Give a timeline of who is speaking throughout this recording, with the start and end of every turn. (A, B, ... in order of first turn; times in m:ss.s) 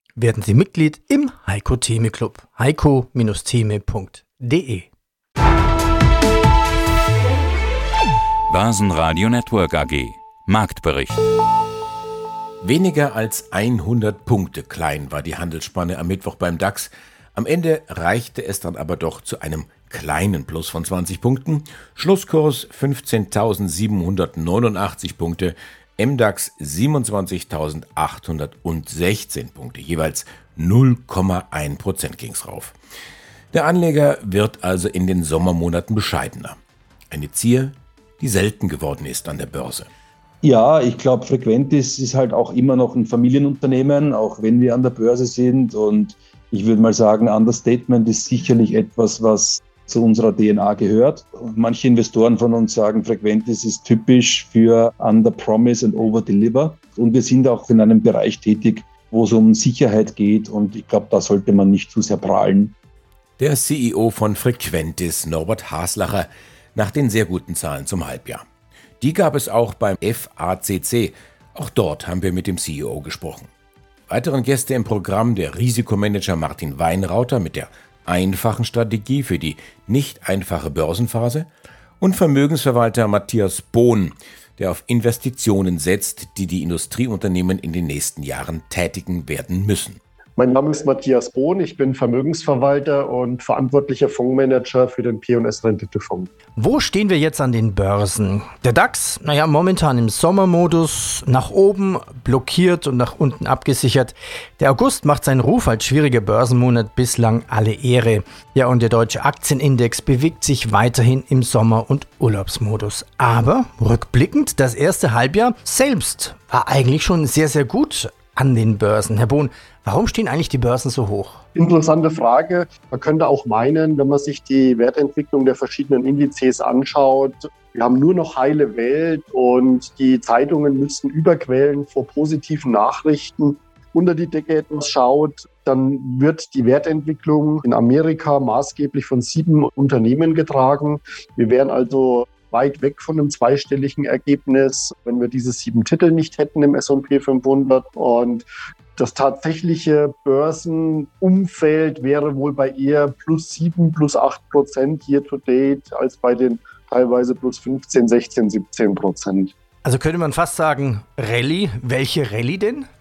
0:00.2-0:04.9 A
0:08.5-0:11.2 B
0:12.6-0:32.8 C
0:33.5-0:36.6 C
0:37.1-0:39.9 C
0:40.4-1:02.7 D
1:03.4-1:08.4 C
1:09.0-1:13.5 C
1:14.1-1:21.5 C
1:22.0-1:30.0 C
1:30.4-1:36.3 E
1:36.6-2:01.4 A
2:01.6-2:28.4 E
2:29.0-2:39.5 E
2:39.8-2:42.9 A